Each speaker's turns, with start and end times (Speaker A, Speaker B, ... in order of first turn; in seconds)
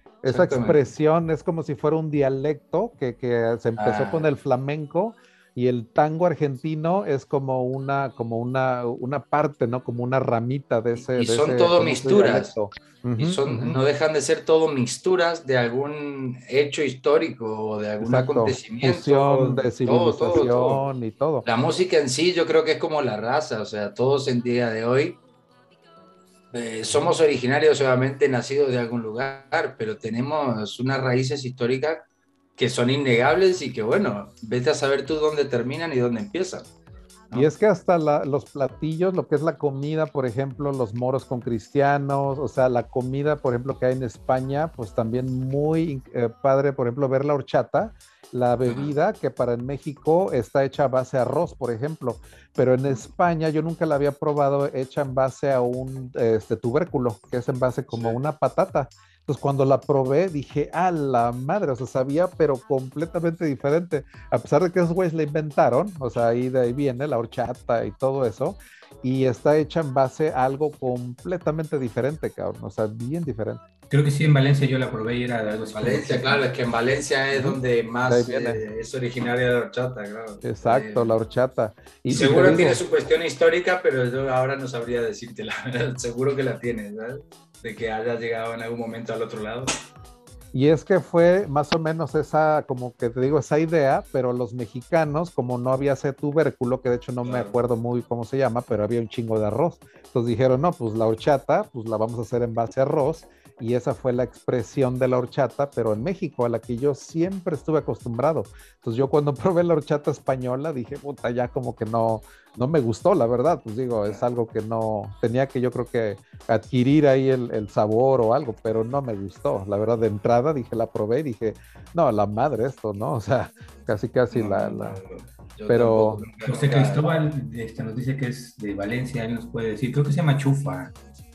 Speaker A: 0.2-13.8, 18.0-21.4, 37.3-73.6, 77.3-78.6, 80.4-82.8, 90.5-125.0, 125.7-126.2
Speaker B: 0.3-0.8, 3.8-4.3, 11.1-12.5, 13.2-20.8, 21.4-25.2, 26.5-32.0, 32.6-36.7, 48.6-48.9, 57.9-58.2, 75.7-81.1, 82.1-89.7, 97.2-97.5, 124.3-127.1
Speaker C: 73.9-76.4, 82.2-82.7, 126.5-130.9